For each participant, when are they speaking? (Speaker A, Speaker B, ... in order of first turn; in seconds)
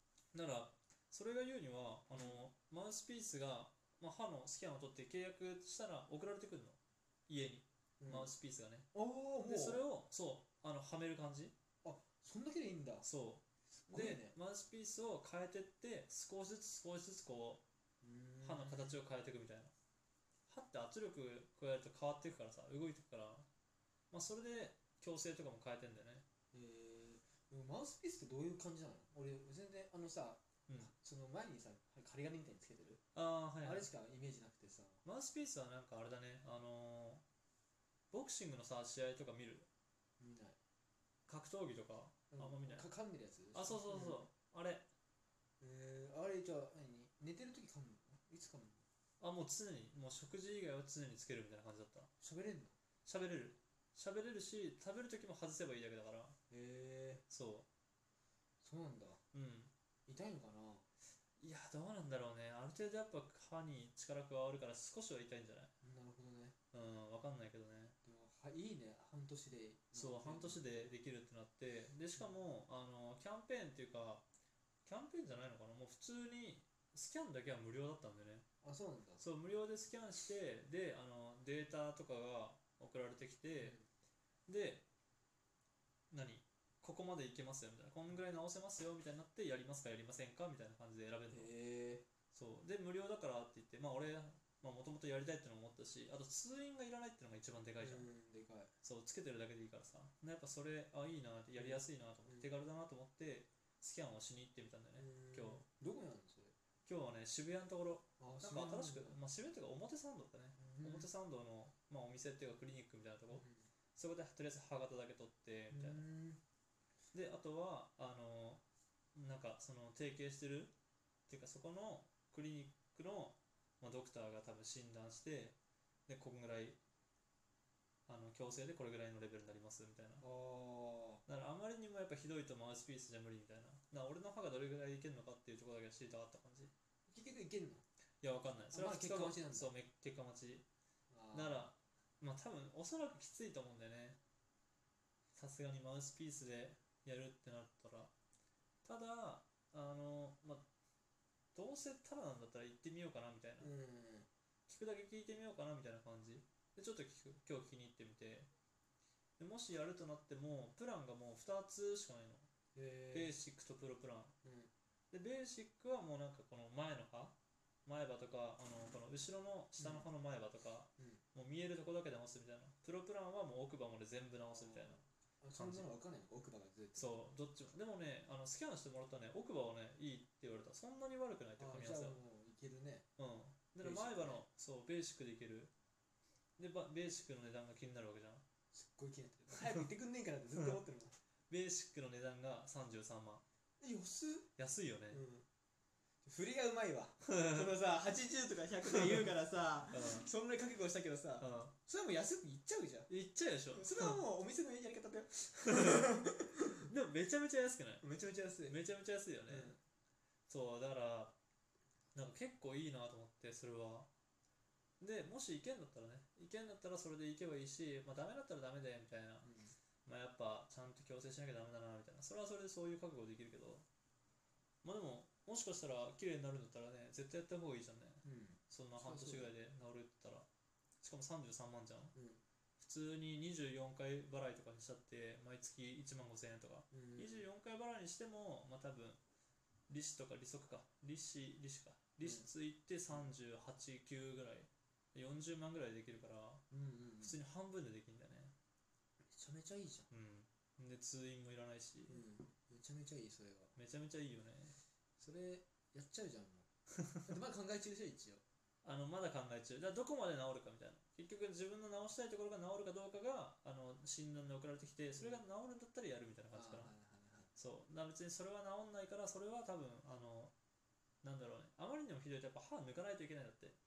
Speaker A: 0.3-8.9, 9.4-11.5, 13.0-17.6, 18.4-19.7, 20.5-23.5, 24.1-26.2, 33.1-33.9, 35.0-37.2, 38.1-39.7, 41.3-42.9, 43.5-44.9, 49.2-52.1, 53.0-56.4, 57.3-57.6, 59.3-59.7, 61.4-65.7, 66.7-68.0, 69.9-74.2, 74.8-78.4, 79.2-83.8, 84.5-84.8, 86.1-91.5, 92.3-98.1, 98.8-105.7, 106.8-113.4, 114.0-116.0, 117.1-118.6, 119.1-120.7, 121.3-125.5, 126.1-126.8, 128.1-130.2, 131.3-136.7, 138.2-140.6, 141.3-144.2, 145.3-148.1, 148.8-150.7, 151.5-153.7, 154.7-158.5, 159.4-162.4, 163.1-164.3, 165.1-175.0, 175.5-175.9, 176.9-182.2, 183.2-185.7, 186.6-188.4, 191.5-193.4, 194.6-195.2, 197.2-197.7, 199.9-200.3, 201.4-201.7, 203.1-204.2, 205.7-206.2, 206.8-208.0, 208.7-209.8, 210.5-211.3, 212.1-214.1, 215.0-219.5, 220.1-223.8, 224.8-230.5, 231.0-232.1, 232.8-239.2, 239.9-246.6, 247.2-248.5, 250.1-252.2, 253.8-254.8, 258.8-266.9, 267.6-270.5, 271.2-273.8
Speaker B: 2.1-2.4, 8.0-8.3, 8.9-9.8, 11.8-13.1, 13.7-14.3, 18.0-19.0, 26.5-33.0, 33.6-35.0, 40.2-40.6, 42.3-44.2, 45.6-48.9, 52.2-52.7, 56.5-57.2, 58.6-59.2, 60.1-60.9, 65.8-66.5, 68.0-70.9, 78.6-79.2, 83.6-83.8, 91.3-92.0, 97.8-98.7, 101.5-102.5, 105.0-106.5, 108.2-109.2, 110.6-111.1, 113.4-113.7, 115.7-116.4, 130.2-131.2, 137.1-137.8, 138.7-139.7, 141.1-141.7, 153.6-154.3, 162.7-163.3, 164.4-164.7, 169.8-170.1, 174.5-177.2, 181.6-183.1, 183.8-184.4, 188.7-191.2, 193.8-194.5, 195.1-195.4, 196.2-203.1, 203.7-206.7, 208.0-208.8, 209.5-209.8, 219.4-219.7, 228.2-229.5, 232.1-232.4, 236.9-237.5, 242.2-242.5, 246.7-247.4, 249.2-250.1, 252.1-253.8, 255.2-258.4, 265.2-265.4, 266.5-267.5